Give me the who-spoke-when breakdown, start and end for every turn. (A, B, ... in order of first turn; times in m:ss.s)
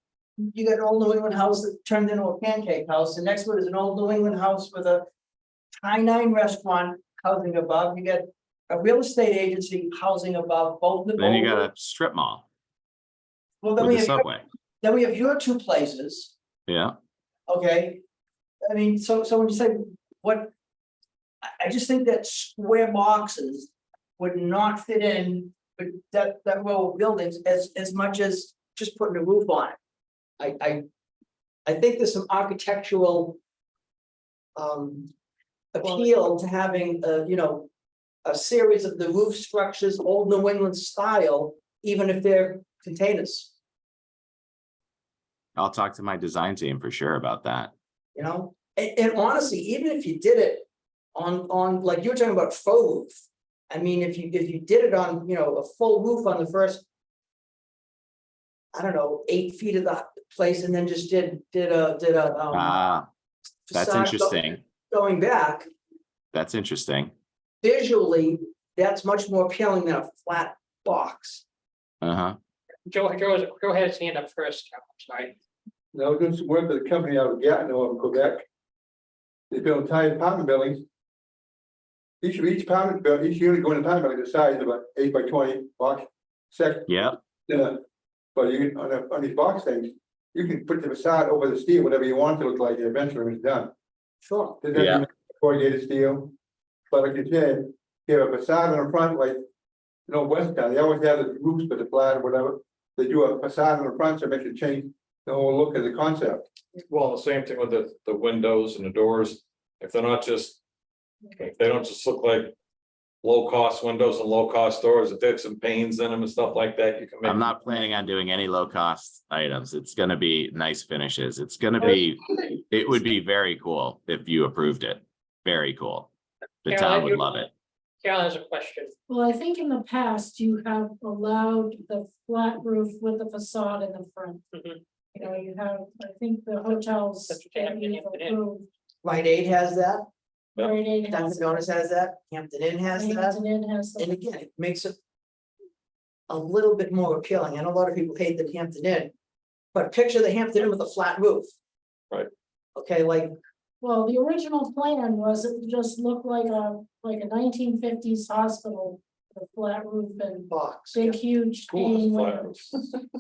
0:00.4-0:05.1 A
0:05.8-0:11.7 A
0:11.2-0:12.4 B
0:13.6-0:14.3 A
0:13.8-0:14.4 B
0:14.8-0:16.3 A
0:16.7-0:17.0 B
0:17.5-0:18.0 A
0:18.6-0:20.5 A
0:21.6-0:29.8 A
0:30.4-0:30.8 A
0:31.7-0:33.4 A
0:34.6-0:35.1 A
0:35.7-0:37.7 A
0:38.2-0:43.5 A
0:45.6-0:47.7 B
0:48.2-0:56.8 A
0:58.7-1:02.8 A
1:02.5-1:03.1 B
1:03.7-1:05.7 A
1:03.7-1:04.6 B
1:06.3-1:07.1 B
1:07.6-1:11.4 A
1:12.0-1:12.4 B
1:12.9-1:15.4 C
1:15.9-1:18.4 D
1:19.5-1:20.8 D
1:22.2-1:26.9 D
1:26.9-1:27.2 B
1:27.5-1:27.8 D
1:28.4-1:33.7 D
1:34.2-1:34.6 A
1:34.6-1:36.3 D
1:34.8-1:35.0 B
1:36.9-1:39.4 D
1:40.1-1:46.4 D
1:46.9-1:50.6 E
1:51.4-1:52.6 E
1:53.2-1:57.6 E
1:57.2-2:06.1 B
2:06.6-2:07.5 B
2:06.7-2:07.3 C
2:08.0-2:08.9 C
2:09.1-2:14.5 F
2:14.5-2:14.8 C
2:15.1-2:18.7 F
2:16.7-2:18.4 C
2:19.0-2:20.1 A
2:20.6-2:21.8 F
2:21.1-2:23.4 A
2:22.9-2:24.1 F
2:24.0-2:25.0 A
2:26.3-2:29.1 A
2:29.7-2:31.5 A
2:32.8-2:33.4 A
2:33.8-2:42.6 F
2:40.5-2:41.2 A
2:41.7-2:43.0 E